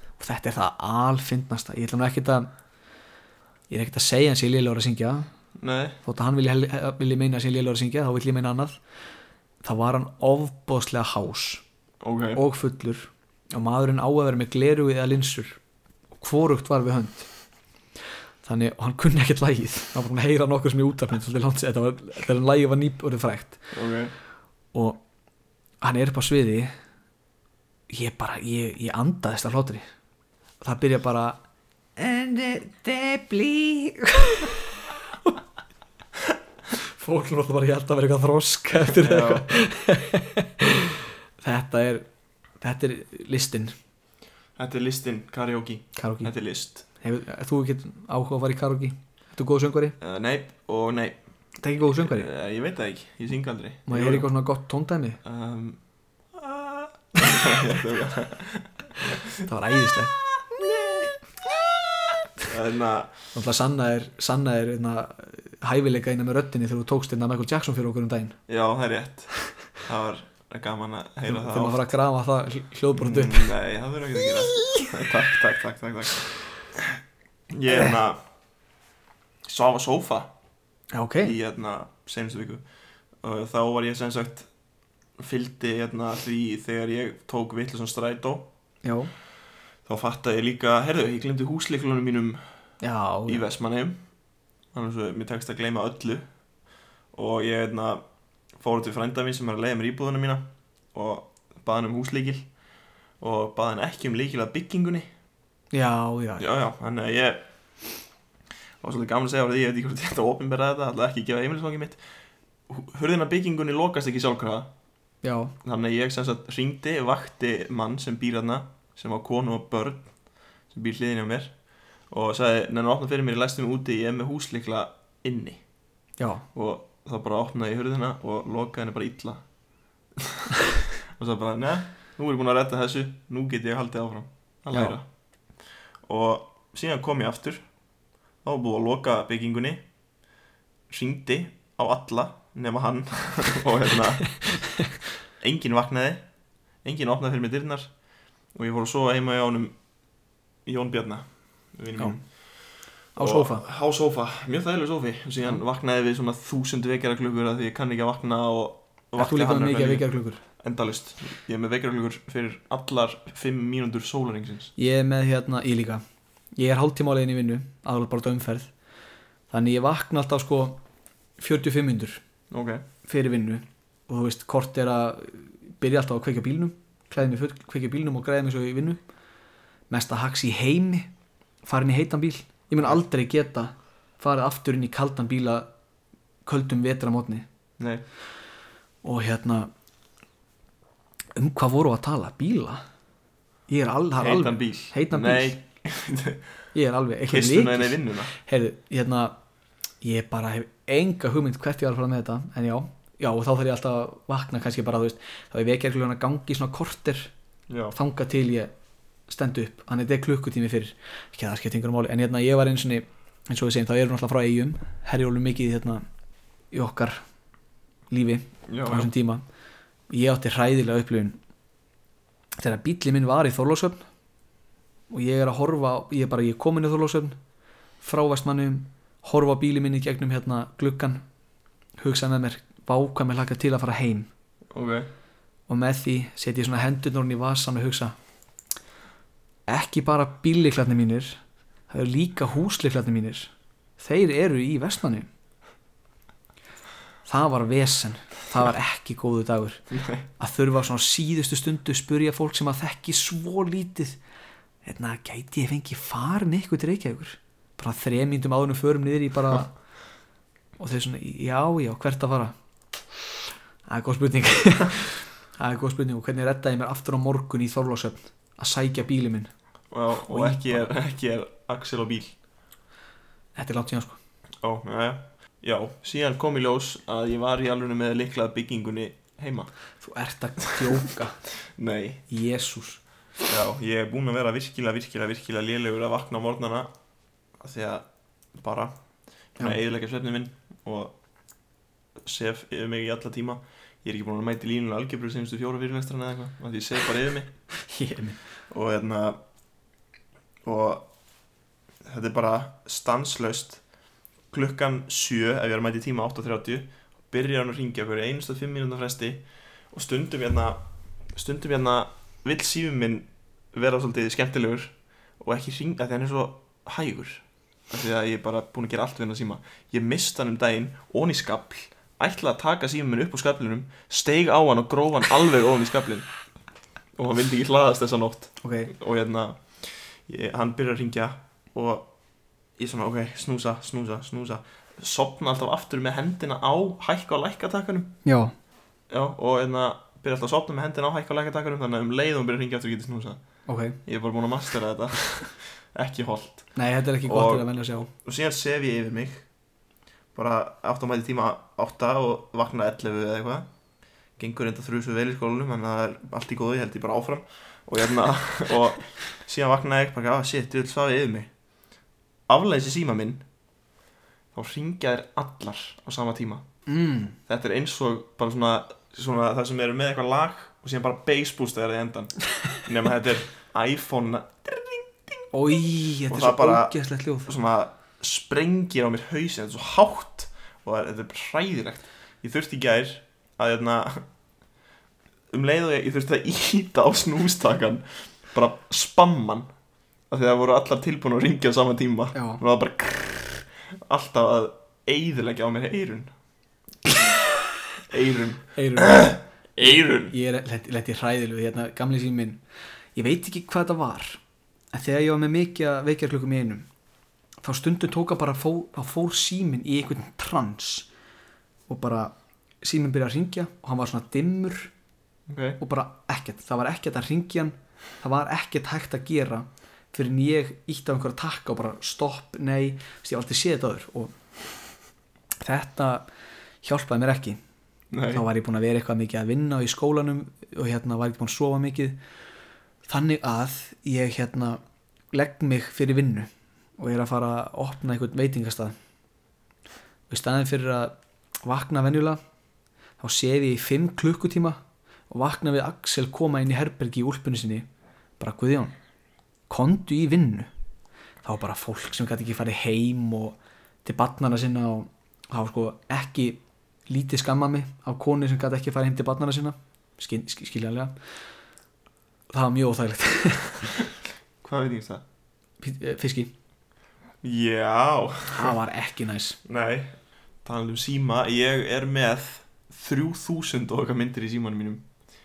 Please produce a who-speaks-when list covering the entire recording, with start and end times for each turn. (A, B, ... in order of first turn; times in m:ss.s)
0:00.2-0:02.5 A
0:03.7-0:05.3 A
0:05.6-0:06.0 B
0:06.0-0:08.8 A
0:09.6-0:11.6 A
0:12.0-0:12.4 B
0:12.3-0:15.6 A
0:16.1-0:17.3 A
0:18.4-0:23.7 A
0:23.7-0:24.1 B
0:24.7-0:25.0 A
0:25.8-0:26.7 A
0:27.9-0:29.8 A
0:30.6-0:31.4 A
0:32.0-0:34.5 A
0:36.8-0:42.1 A
0:38.9-0:39.4 B
0:42.6-0:43.7 A
0:44.6-0:46.8 B
0:46.0-0:50.0 A
0:50.0-0:51.2 B
0:51.6-0:52.3 A
0:51.9-0:54.3 B
0:53.9-0:55.2 A
0:55.2-0:55.8 B
0:56.3-0:59.3 B
0:59.4-1:00.1 A
1:00.4-1:01.7 B
1:02.4-1:03.2 B
1:03.3-1:08.4 A
1:08.5-1:11.9 B
1:11.3-1:13.5 A
1:12.9-1:16.5 B
1:17.5-1:18.2 B
1:19.4-1:20.3 B
1:20.9-1:21.4 A
1:21.2-1:22.6 B
1:23.2-1:24.5 B
1:25.2-1:28.5 B
1:28.8-1:29.1 A
1:29.8-1:32.5 B
1:32.8-1:33.4 A
1:33.3-1:34.1 B
1:34.7-1:36.3 B
1:37.1-1:42.5 B
1:43.2-1:45.1 B
1:45.7-1:46.4 A
1:46.4-1:47.5 B
1:48.8-1:52.0 B
1:52.7-1:54.7 B
1:55.2-1:55.5 A
1:55.6-2:05.6 B
2:06.2-2:06.4 A
2:06.5-2:09.4 B
2:11.1-2:15.1 B
2:16.0-2:17.7 B
2:18.4-2:19.8 B
2:20.9-2:24.8 B
2:25.4-2:26.2 B
2:26.8-2:27.9 B
2:28.5-2:29.8 B
2:30.6-2:44.7 B
2:33.1-2:33.6 A
2:39.2-2:40.4 A
2:44.8-2:46.0 A
2:46.6-2:48.7 A
2:49.5-2:50.8 A
2:51.4-2:52.2 A
2:52.5-2:52.8 B
2:53.0-2:59.0 A
2:59.9-3:01.1 A
3:01.6-3:05.7 A
3:06.4-3:07.4 A
3:07.8-3:08.0 B
3:09.0-3:09.7 A
3:11.3-3:12.8 A
3:13.7-3:15.6 A
3:14.2-3:16.4 B
3:16.7-3:19.4 A
3:17.3-3:18.3 B
3:20.0-3:27.3 A
3:27.7-3:28.0 B
3:27.9-3:28.7 A
3:29.3-3:36.0 A
3:36.7-3:37.2 A
3:38.1-3:39.4 A
3:38.7-3:39.1 B
3:40.1-3:41.4 A
3:42.6-3:44.0 A
3:45.1-3:47.4 A
3:48.0-3:51.2 A
3:52.0-3:54.3 A
3:54.7-3:55.1 B
3:55.7-3:58.1 A
3:59.7-4:05.3 A
4:07.2-4:14.2 A
4:10.0-4:10.2 B
4:14.8-4:19.7 A
4:20.8-4:22.5 A
4:23.9-4:29.5 A
4:29.9-4:32.3 B
4:30.1-4:30.9 A
4:33.5-4:34.2 A
4:34.6-4:39.7 B
4:40.0-4:41.4 A
4:41.8-4:42.2 B
4:42.3-4:43.0 A
4:43.4-4:46.9 B
4:47.6-4:51.2 B
4:52.2-4:57.5 B
4:57.9-4:58.4 A
4:58.7-4:59.4 B
5:00.6-5:01.1 B
5:02.0-5:03.8 B
5:04.5-5:26.3 B
5:27.1-5:32.1 B
5:28.6-5:28.9 A
5:32.8-5:38.2 B
5:38.2-5:38.5 A
5:39.1-5:49.4 B
5:43.7-5:44.0 A
5:46.7-5:48.1 A
5:50.3-5:53.7 B
5:54.4-6:01.5 B
6:02.5-6:03.4 B
6:04.5-6:06.6 B
6:06.9-6:07.4 A
6:07.5-6:15.5 B
6:15.5-6:17.5 A
6:16.3-6:24.2 B
6:25.5-6:29.7 B
6:30.3-6:36.3 B
6:32.3-6:32.6 A
6:38.1-6:40.3 B
6:38.8-6:42.6 A
6:43.1-6:44.4 A
6:44.9-6:46.9 A
6:47.6-6:51.1 A
6:51.9-6:54.9 A
6:55.5-6:55.8 B
6:55.8-7:04.4 A
7:05.6-7:06.3 A
7:06.8-7:07.6 A
7:08.1-7:08.4 B
7:08.3-7:12.2 A
7:13.1-7:14.8 A
7:15.3-7:18.9 A
7:20.3-7:22.4 A
7:23.2-7:27.9 A
7:28.4-7:28.9 A
7:29.7-7:30.7 A
7:31.4-7:41.1 A
7:42.5-7:43.9 A
7:44.6-7:45.2 B
7:45.8-7:46.5 A
7:47.4-7:48.7 B
7:48.5-7:49.6 A
7:49.6-7:55.0 B